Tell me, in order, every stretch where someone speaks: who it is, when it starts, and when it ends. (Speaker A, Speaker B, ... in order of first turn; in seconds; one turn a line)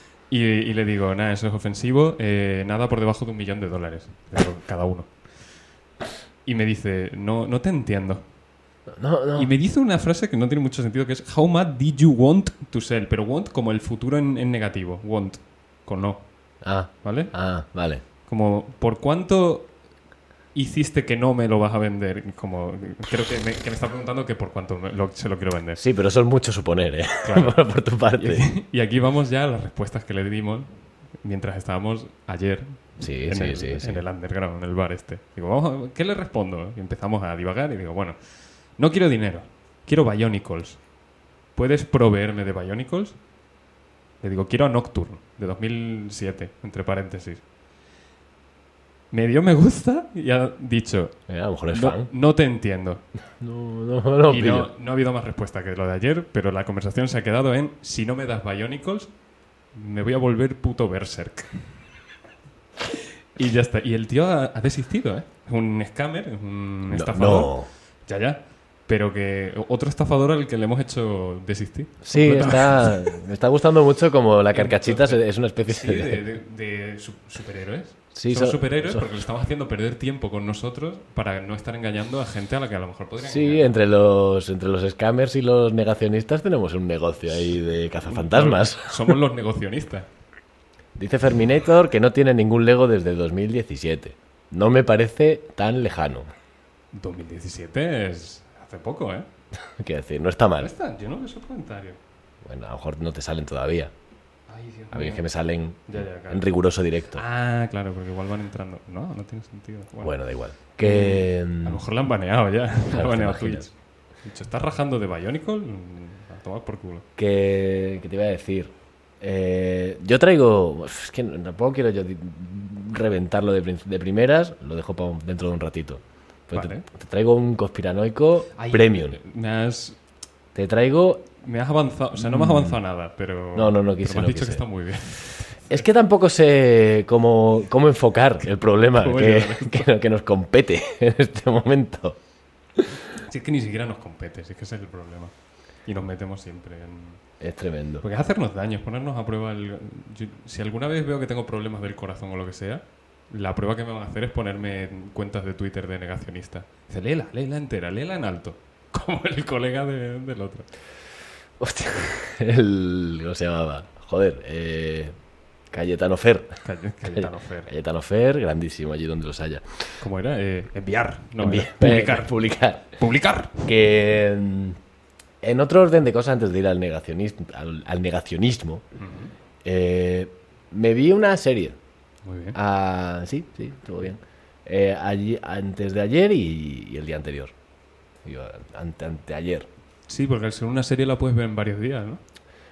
Speaker A: 0.3-5.1
Speaker A: 6.4-8.2
Speaker B: 9.0-9.5
Speaker A: 9.3-16.2
Speaker B: 16.6-18.0
Speaker A: 17.0-17.3
Speaker A: 18.2-19.7
Speaker A: 20.5-25.8
Speaker B: 25.8-28.5
Speaker A: 27.2-27.6
Speaker A: 28.2-38.2
Speaker B: 33.0-34.0
Speaker A: 38.8-40.8
Speaker A: 41.5-43.2
Speaker A: 44.2-47.4
Speaker A: 49.1-51.1
Speaker B: 51.3-52.1
Speaker A: 51.7-53.0
Speaker B: 53.4-54.7
Speaker A: 54.3-59.1
Speaker A: 59.7-61.5
Speaker A: 63.3-73.2
Speaker B: 66.9-67.7
Speaker B: 72.0-76.2
Speaker A: 74.5-83.7
Speaker B: 78.1-79.0
Speaker B: 83.2-89.1
Speaker A: 88.0-90.1
Speaker B: 91.0-96.3
Speaker A: 96.9-99.3
Speaker B: 99.8-100.7
Speaker A: 100.6-102.0
Speaker B: 102.4-103.9
Speaker A: 104.5-105.2
Speaker B: 104.9-107.2
Speaker A: 105.9-106.5
Speaker A: 107.1-110.1
Speaker B: 110.0-111.8
Speaker A: 110.8-117.0
Speaker B: 112.9-113.7
Speaker B: 117.2-129.2
Speaker A: 126.5-126.8
Speaker A: 128.6-130.0
Speaker B: 130.5-131.3
Speaker A: 131.4-135.8
Speaker B: 132.2-132.8
Speaker B: 133.5-134.6
Speaker B: 135.7-142.2
Speaker A: 138.9-139.9
Speaker A: 143.2-145.3
Speaker A: 145.8-147.2
Speaker B: 147.4-148.0
Speaker A: 148.0-160.7
Speaker B: 161.6-165.1
Speaker B: 165.7-169.6
Speaker A: 166.6-167.7
Speaker A: 170.0-172.3
Speaker B: 171.4-172.9
Speaker A: 172.9-173.6
Speaker B: 173.6-174.8
Speaker B: 175.4-178.8
Speaker A: 179.0-179.3
Speaker B: 179.6-181.8
Speaker A: 182.2-182.6
Speaker B: 182.5-187.5
Speaker B: 188.2-189.7
Speaker A: 190.1-192.2